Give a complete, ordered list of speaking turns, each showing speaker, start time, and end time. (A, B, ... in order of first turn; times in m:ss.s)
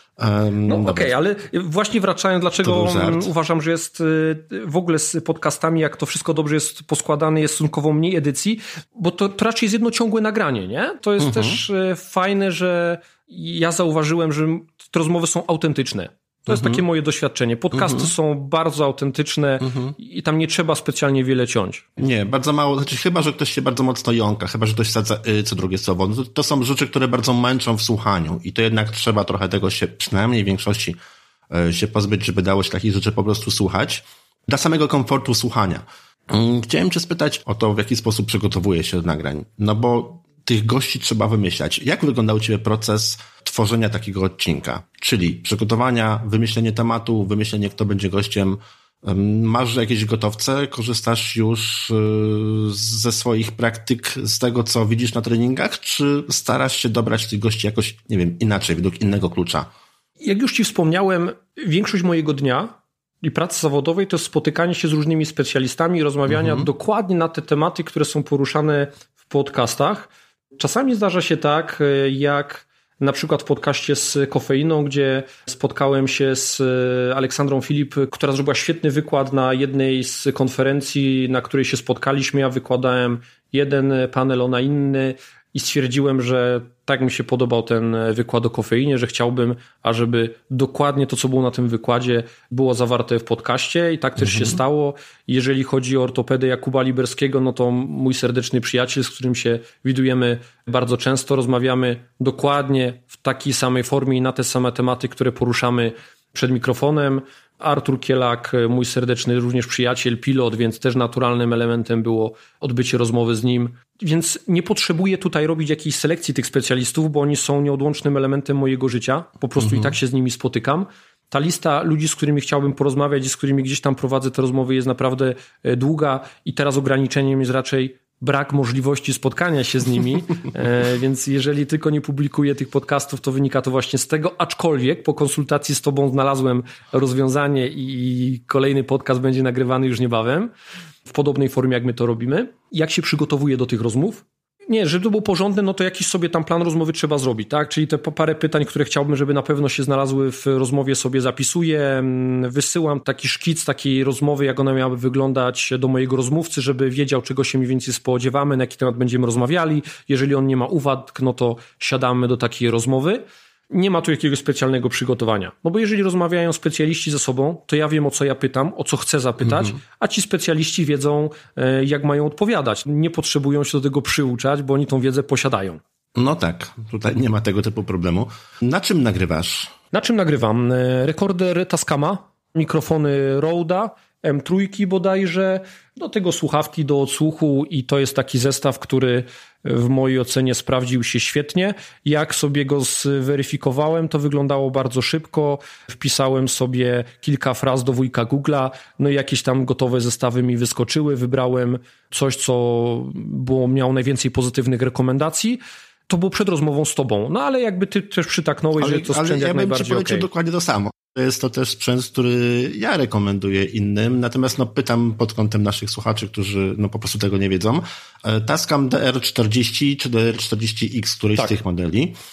0:00.2-0:01.1 A
0:00.7-0:21.9 B
0:02.6-0:03.3 A
0:11.2-0:11.6 A
0:16.5-0:16.8 A
0:17.7-0:18.1 A
0:19.6-0:19.9 A
0:22.0-0:31.0 A
0:31.5-0:59.7 A
1:00.2-2:20.5 B
1:06.3-1:06.6 A
1:34.2-1:34.6 A
1:59.6-1:59.9 A
2:21.0-2:55.8 B
2:49.4-2:49.7 A
2:56.1-2:59.7 A
2:59.9-3:30.3 B
3:28.8-3:42.2 A